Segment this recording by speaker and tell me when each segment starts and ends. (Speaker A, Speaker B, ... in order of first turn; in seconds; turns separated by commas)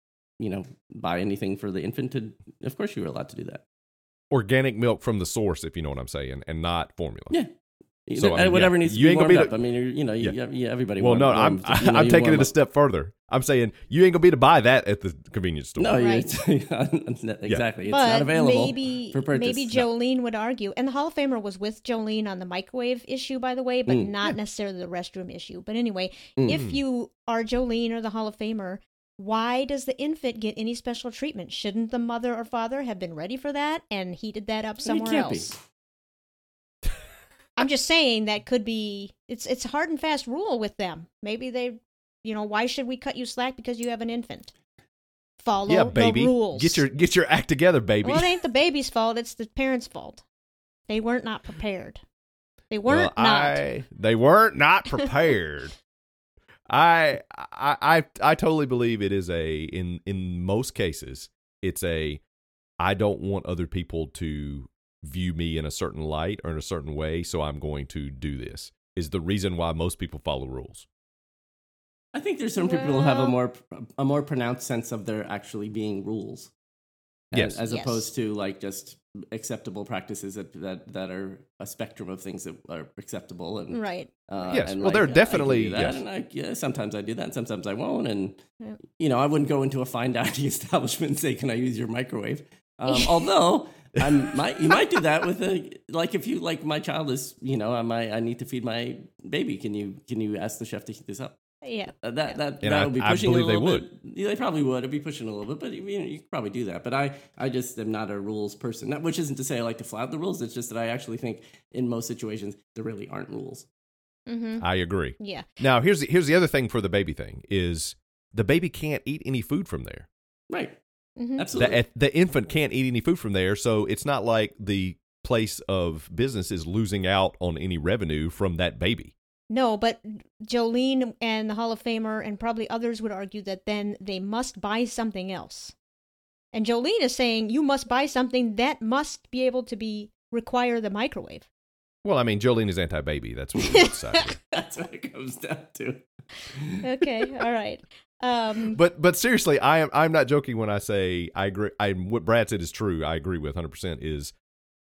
Speaker A: 0.4-3.6, Speaker B: 4.3-7.4, Speaker A: 8.1-12.5, Speaker B: 8.2-9.5, Speaker B: 11.0-16.0, Speaker A: 15.8-19.8, Speaker C: 16.0-16.3, Speaker C: 17.9-35.6, Speaker A: 23.9-24.1, Speaker A: 26.4-26.6, Speaker B: 26.5-26.8, Speaker A: 34.8-35.6, Speaker C: 37.6-44.5, Speaker C: 45.4-46.8, Speaker B: 45.7-48.3, Speaker C: 48.0-50.2, Speaker C: 50.9-52.0, Speaker C: 52.7-53.7, Speaker B: 52.9-55.8, Speaker B: 56.7-62.2, Speaker B: 62.8-70.9, Speaker A: 72.1-76.5, Speaker C: 72.6-73.3, Speaker A: 77.3-88.4, Speaker B: 77.3-77.6, Speaker C: 77.7-78.1, Speaker C: 83.7-84.1, Speaker B: 84.5-86.0, Speaker A: 89.0-101.4, Speaker C: 92.9-93.2, Speaker C: 101.6-102.3, Speaker A: 102.0-113.7, Speaker B: 102.6-103.9, Speaker C: 114.3-114.7, Speaker B: 114.6-120.1, Speaker C: 115.2-115.5, Speaker A: 120.5-120.8, Speaker C: 121.2-121.5, Speaker A: 121.4-121.8, Speaker B: 121.5-129.1, Speaker C: 129.5-135.8, Speaker C: 136.5-141.5, Speaker B: 142.0-144.4, Speaker A: 144.5-147.2, Speaker C: 146.8-148.8, Speaker B: 148.7-154.3